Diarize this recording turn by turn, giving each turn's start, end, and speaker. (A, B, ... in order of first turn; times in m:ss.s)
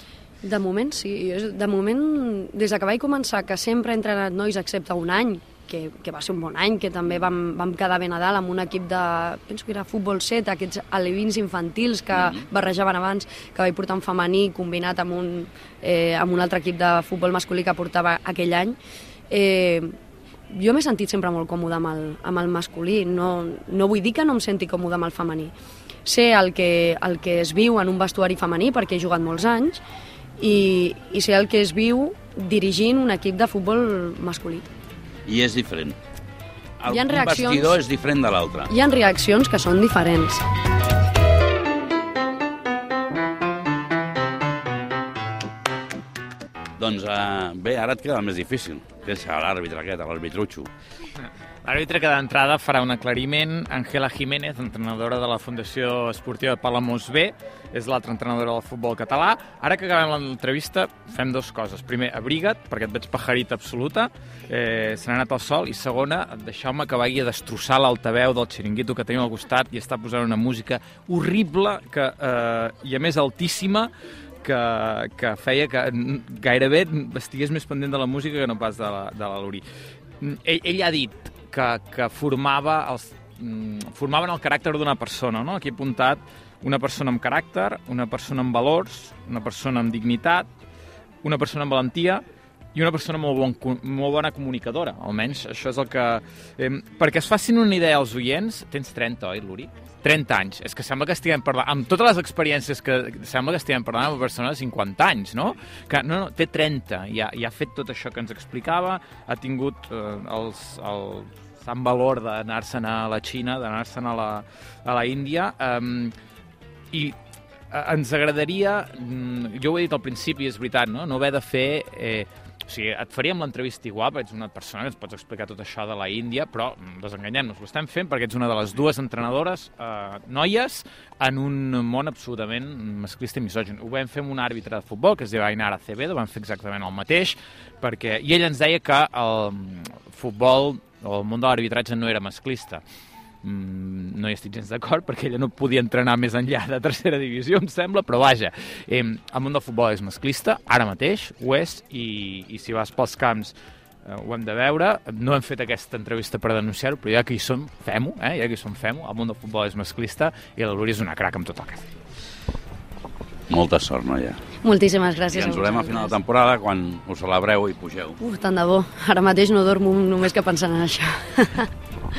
0:00.4-0:18.8 A
0:12.1-0:12.4 B
0:19.3-0:19.9 A
0:20.5-0:25.5 A
0:26.0-0:29.8 A
0:30.4-0:34.7 A
0:35.3-0:36.0 B
0:36.8-0:38.7 B
0:36.9-0:37.8 A
0:38.7-0:40.4 A
0:46.8-0:50.7 B
0:51.6-1:13.9 C
1:14.4-1:19.6 C
1:20.2-1:30.5 C
1:31.2-1:32.2 C
1:32.7-1:56.1 C
1:57.7-2:22.8 C
2:23.4-2:33.5 C
2:34.0-2:41.8 C
2:43.5-2:44.4 B
2:44.6-2:46.2 A
2:45.3-2:48.2 B
2:48.2-2:51.7 A